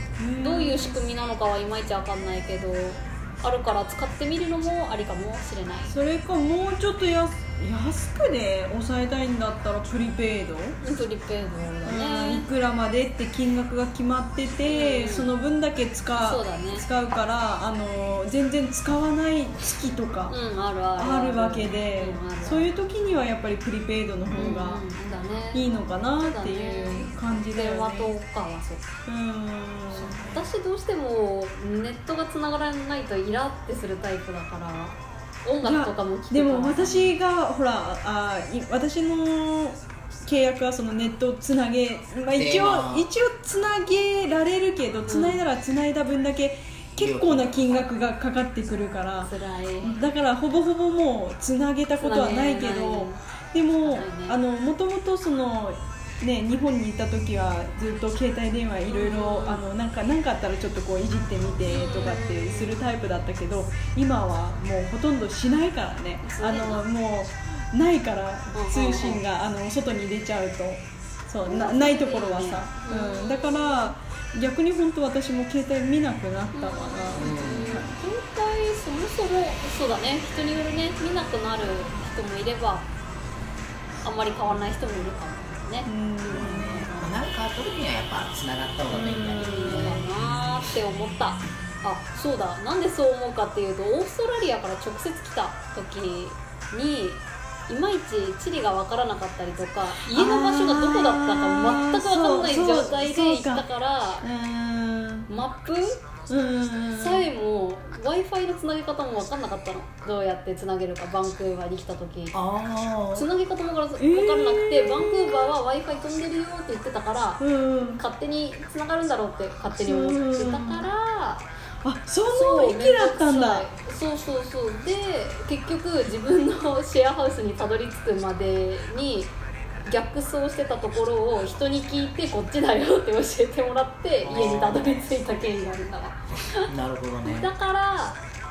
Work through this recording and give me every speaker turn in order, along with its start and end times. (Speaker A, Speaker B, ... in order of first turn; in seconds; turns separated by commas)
Speaker A: 0.2-1.0, Speaker B: 0.4-5.9, Speaker A: 5.9-10.8, Speaker B: 10.8-12.5, Speaker A: 11.8-20.3, Speaker B: 14.7-15.3, Speaker B: 16.2-16.9, Speaker B: 20.3-22.7, Speaker A: 21.0-24.8, Speaker C: 24.3-24.6, Speaker B: 24.4-28.9, Speaker A: 25.5-28.1, Speaker A: 29.1-30.3, Speaker C: 29.9-30.5, Speaker B: 30.3-37.2, Speaker A: 35.6-78.0, Speaker C: 42.3-43.1, Speaker B: 45.0-45.4, Speaker C: 47.0-47.9, Speaker B: 49.2-50.0, Speaker B: 52.0-53.2, Speaker B: 53.8-54.4, Speaker B: 58.9-59.6, Speaker B: 61.7-62.8, Speaker B: 66.2-66.8, Speaker B: 68.5-69.2, Speaker B: 71.4-73.9, Speaker B: 76.5-82.9, Speaker C: 77.1-77.8, Speaker B: 84.0-87.2, Speaker A: 85.9-86.8, Speaker C: 86.2-90.3, Speaker A: 88.9-90.1, Speaker B: 89.3-104.3, Speaker A: 100.0-103.7, Speaker A: 104.2-105.3, Speaker B: 105.3-106.0, Speaker A: 106.3-107.3, Speaker B: 107.0-112.4, Speaker C: 112.3-113.3, Speaker B: 113.1-121.5, Speaker A: 114.0-115.6, Speaker A: 117.4-118.0, Speaker A: 119.8-120.9, Speaker A: 121.8-123.7, Speaker B: 122.3-129.3, Speaker B: 129.9-136.7, Speaker C: 134.2-135.1, Speaker C: 136.7-137.5, Speaker B: 137.2-138.2